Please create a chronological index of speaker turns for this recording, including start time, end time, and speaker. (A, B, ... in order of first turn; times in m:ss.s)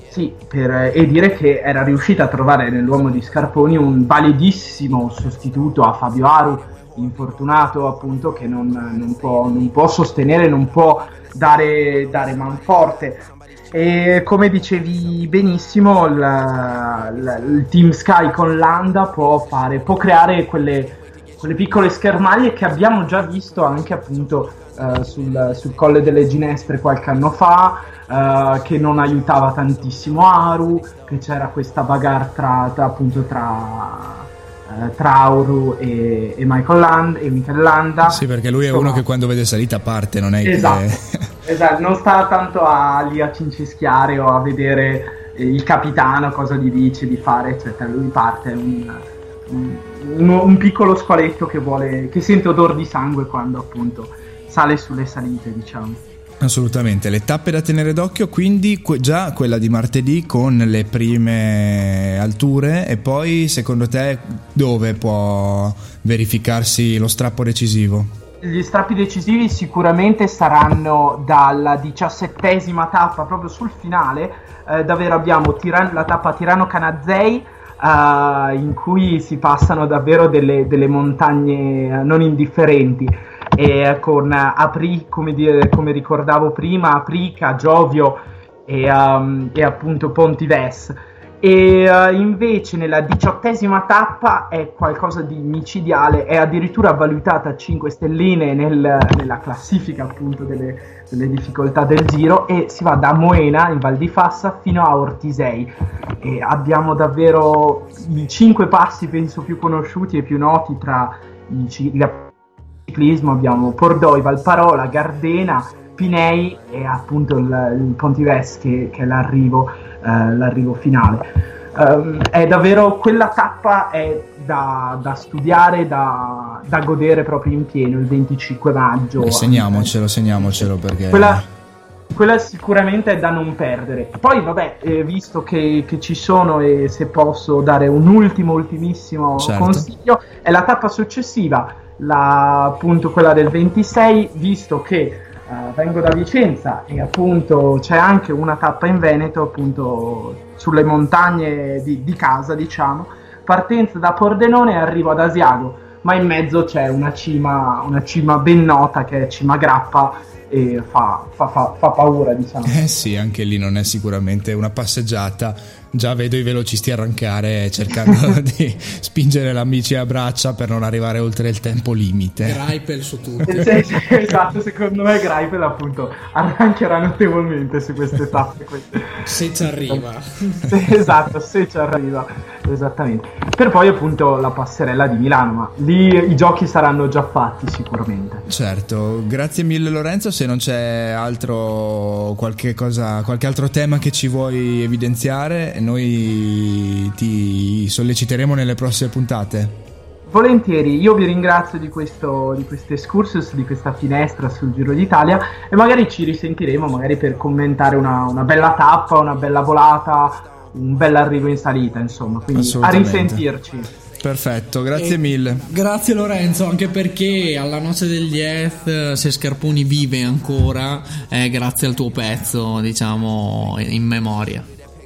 0:00.1-0:39.0 A
0:38.0-0:41.3 B
0:40.4-0:40.9 A
0:41.4-0:56.0 A
0:56.4-1:08.1 B
1:08.4-1:52.3 A
1:52.9-2:11.4 A
2:09.2-2:11.4 B
2:12.1-2:42.8 A
2:19.4-2:19.9 B
2:42.7-2:52.6 B
2:48.0-2:48.4 A
2:52.4-2:53.9 C
2:53.5-2:59.3 A
2:59.2-3:00.7 C
3:00.7-3:08.4 A
3:08.5-3:19.8 B
3:20.3-3:33.9 A
3:32.5-3:33.4 B
3:34.2-3:35.6 B
3:35.0-3:44.7 C